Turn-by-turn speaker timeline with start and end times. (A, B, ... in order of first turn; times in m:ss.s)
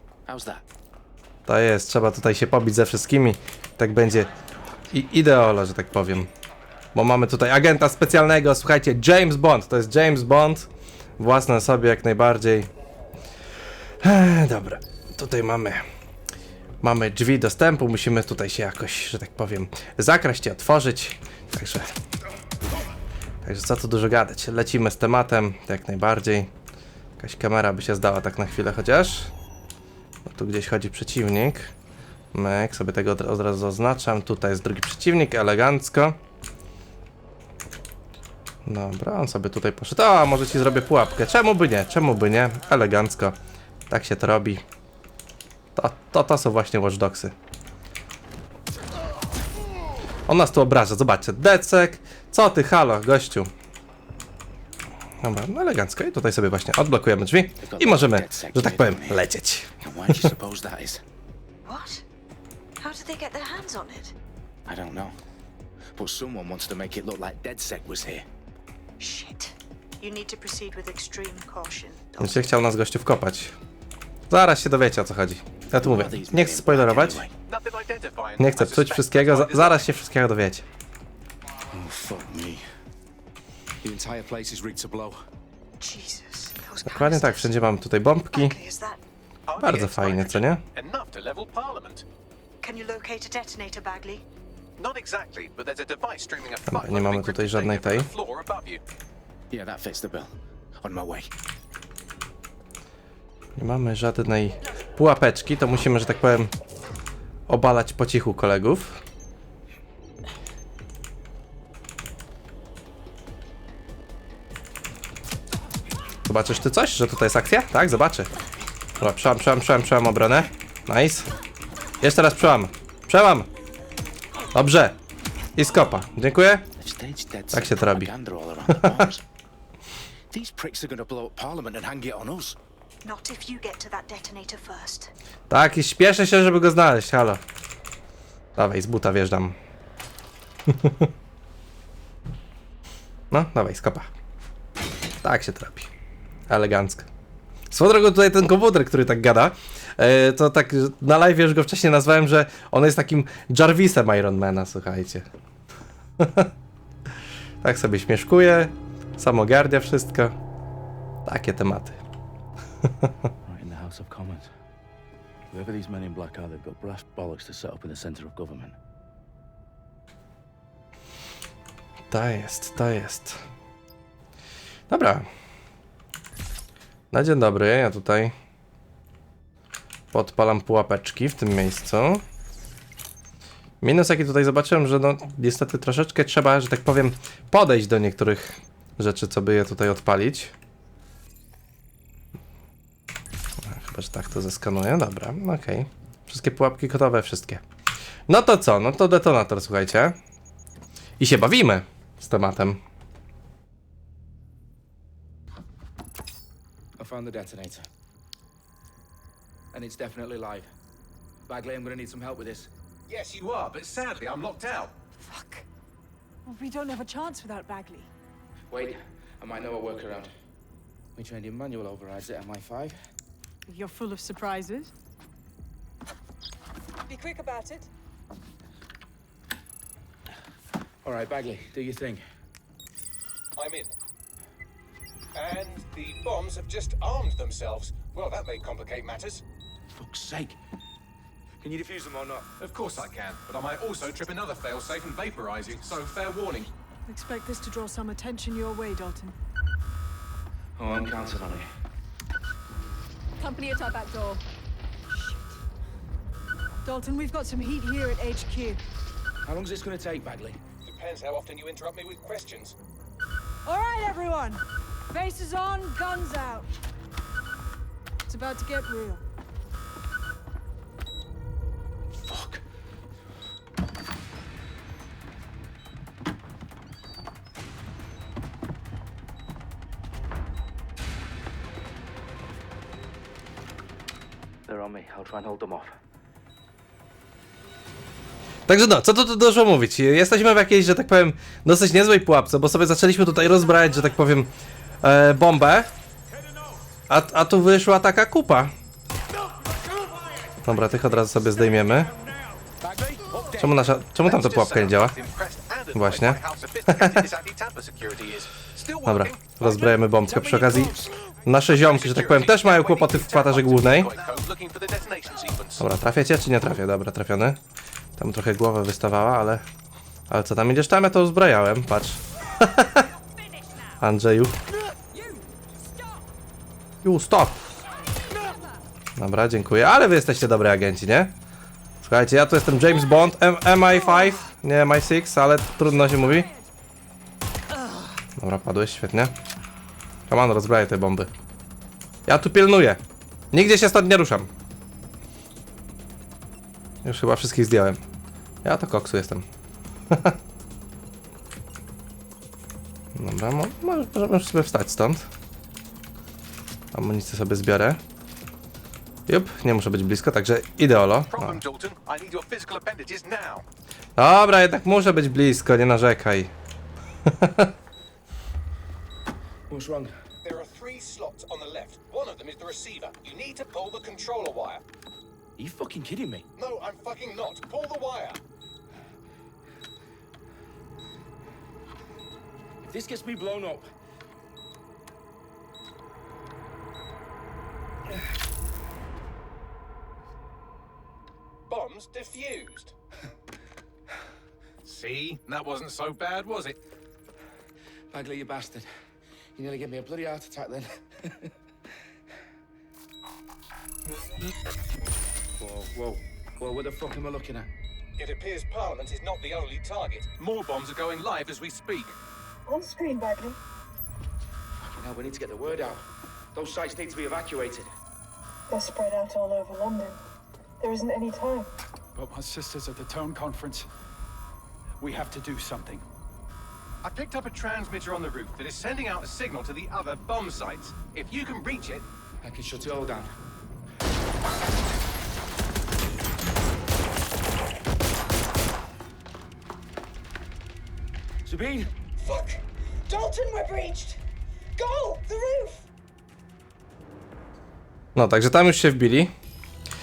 0:00.3-0:00.6 A
0:01.5-0:04.3 B
0:04.9-0:06.3 B
0:07.0-0:10.7 B
0:11.2-0:12.7 B
0:14.0-0:15.8 B
0:16.8-0:21.9 B
0:23.4-0:26.5 B
0:27.2-0:29.3 B
0:30.3-0:31.7 B
0:32.3-0:36.2 B
0:38.7-0:43.4 B
0:43.9-0:44.6 B
0:45.8-0:47.3 B
0:50.3-0:53.5 B
0:55.2-1:00.3 B
0:57.6-0:59.2 A
0:59.8-1:01.0 A
1:01.6-1:02.0 C
1:02.8-1:04.2 C
1:04.7-1:05.2 A
1:05.9-1:08.3 A
1:09.0-1:12.5 C
1:12.2-1:13.6 B
1:14.3-1:17.2 B
1:15.8-1:17.3 A
1:17.5-1:19.9 D
1:18.4-1:20.6 B
1:21.8-1:22.6 A
1:23.8-1:25.2 E
1:25.8-1:27.6 C
1:26.9-1:28.6 B
1:28.3-1:29.0 C
1:29.5-1:32.0 D
1:29.6-1:30.6 B
1:32.6-1:34.2 C
1:34.8-1:38.8 D
1:36.7-1:38.1 B
1:39.5-1:41.3 A
1:43.6-1:46.5 B
1:47.5-1:49.0 B
1:56.3-1:58.3 B
1:59.0-2:01.3 B
2:02.0-2:03.5 B
2:04.5-2:05.0 B
2:05.6-2:06.7 B
2:06.8-2:09.2 A
2:07.5-2:08.1 B
2:08.8-2:09.0 B
2:10.3-2:12.6 A
2:13.0-2:15.1 C
2:15.5-2:17.4 B
2:18.6-2:19.6 B
2:20.7-2:21.1 B
2:23.3-2:24.1 B
2:25.2-2:25.9 B
2:26.5-2:27.1 B
2:27.7-2:35.2 B
2:36.2-2:36.5 B
2:37.6-2:40.4 B
2:41.2-2:42.0 B
2:43.5-2:44.5 A
2:45.5-2:48.8 A
2:52.1-2:53.4 B
2:54.9-2:55.3 B
2:57.1-2:58.3 B
3:00.1-3:02.2 B
3:03.8-3:10.5 B
3:13.6-3:17.6 B
3:18.3-3:20.2 B
3:21.2-3:22.8 B
3:27.0-3:27.9 E
3:29.7-3:30.7 E
3:31.5-3:32.7 E
3:33.1-3:34.9 D
3:35.2-3:35.6 F
3:36.5-3:38.1 F
3:38.7-3:40.3 E
3:41.2-3:43.0 E
3:43.7-3:44.9 F
3:47.1-3:47.9 F
3:51.0-3:52.2 E
3:53.6-3:53.9 D
3:55.4-3:59.4 D
3:59.9-4:00.6 A
4:01.6-4:02.5 E
4:02.6-4:06.7 D
4:07.1-4:09.4 F
4:10.8-4:11.6 E
4:13.4-4:14.4 F
4:15.1-4:15.6 F
4:16.8-4:18.8 F
4:19.4-4:20.6 E
4:20.8-4:22.8 D
4:23.6-4:26.7 F
4:28.3-4:29.2 F
4:32.2-4:32.6 A
4:44.7-4:45.9 A
4:48.7-4:55.9 B
4:57.1-4:58.7 B
5:00.6-5:02.1 B
5:02.8-5:03.7 E
5:03.6-5:05.1 B
5:04.2-5:09.7 D
5:05.9-5:06.4 B
5:09.0-5:14.1 B
5:10.3-5:10.9 A
5:10.5-5:10.9 E
5:11.8-5:15.8 D
5:15.8-5:17.6 B
5:18.2-5:19.6 B
5:20.3-5:23.1 B
5:24.0-5:24.6 B
5:27.0-5:27.6 B
5:28.4-5:28.7 F
5:29.2-5:31.3 B
5:32.0-5:36.5 B
5:37.8-5:38.1 F
5:38.4-5:39.3 B
5:40.3-5:41.3 B
5:42.3-5:43.0 B
5:43.5-5:44.5 B
5:47.0-5:48.0 B
5:48.6-5:49.4 B
5:50.1-5:50.4 B
5:53.2-5:55.3 B
5:56.9-5:58.0 B
5:59.3-6:01.6 B
6:01.3-6:03.6 D
6:04.2-6:06.5 B
6:07.3-6:07.7 B
6:09.7-6:10.1 E
6:10.4-6:14.8 D
6:15.6-6:16.4 E
6:15.7-6:16.2 A
6:16.6-6:18.4 D
6:22.8-6:23.9 E
6:31.7-6:32.9 D
6:34.8-6:36.8 D
6:38.1-6:38.9 E
6:39.6-6:41.5 E
6:45.6-6:47.7 E
6:48.2-6:52.2 D
6:52.7-6:53.6 F
6:54.8-6:57.9 E
6:58.7-7:00.2 F
7:00.8-7:01.7 F
7:02.2-7:03.9 G
7:05.0-7:06.0 G
7:07.0-7:12.1 D
7:12.4-7:13.4 E
7:21.4-7:21.9 E
7:22.2-7:24.2 C
7:24.8-7:25.8 C
7:28.2-7:29.3 B